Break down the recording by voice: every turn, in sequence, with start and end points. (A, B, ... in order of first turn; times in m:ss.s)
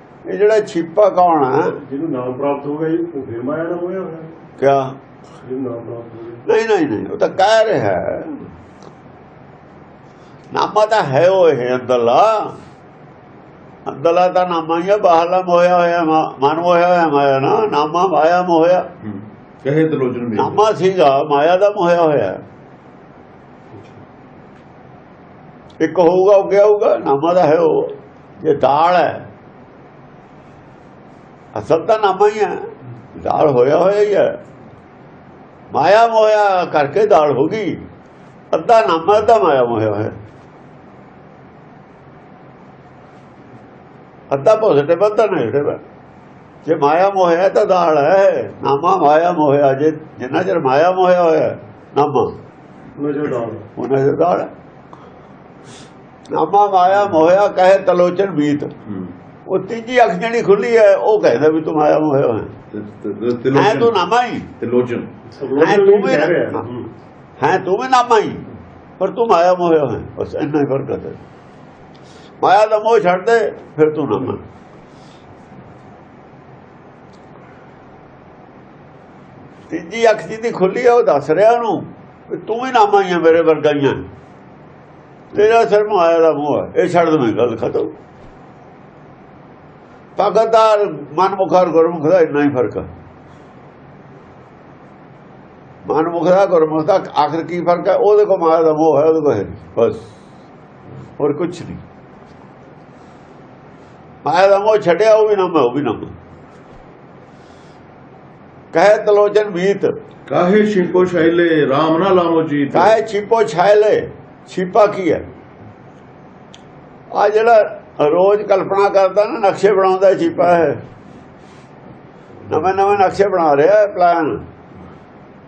0:00.2-0:01.8 A
0:01.8-0:04.4 B
0:04.6-0:05.0 A
0:05.4-0:06.4 B
0:06.4-0:08.4 A
0:10.5-0:12.6 A
0:13.8-0:18.9 A
0:19.0-0:20.6 C
0:20.3-0:22.4 A
0:25.8-0:29.2 A
0:31.5-0:32.6 A
0:33.2-0:34.4 A
0:35.7-0:37.8 A
0:38.5-0:40.1 A
0:44.3-0:45.8 A
0:46.6-0:52.3 A
0:53.0-0:53.6 B
0:53.8-0:54.5 A
0:56.3-0:58.7 A
0:58.8-0:59.1 C
0:59.5-1:02.5 A
1:02.7-1:03.9 C
1:03.5-1:04.5 A
1:04.6-1:05.1 C
1:05.3-1:06.9 B
1:05.6-1:06.7 A
1:07.4-1:08.4 A
1:09.0-1:11.2 A
1:12.4-1:14.4 A
1:19.7-1:24.0 A
1:25.3-1:27.9 A
1:30.2-1:32.9 A
1:35.8-1:40.0 A
1:41.2-1:41.8 A
1:44.2-1:46.1 A
1:48.7-1:50.0 A
1:50.3-1:52.9 C
1:52.7-1:55.2 A
1:57.1-2:00.8 A
2:02.5-2:04.4 A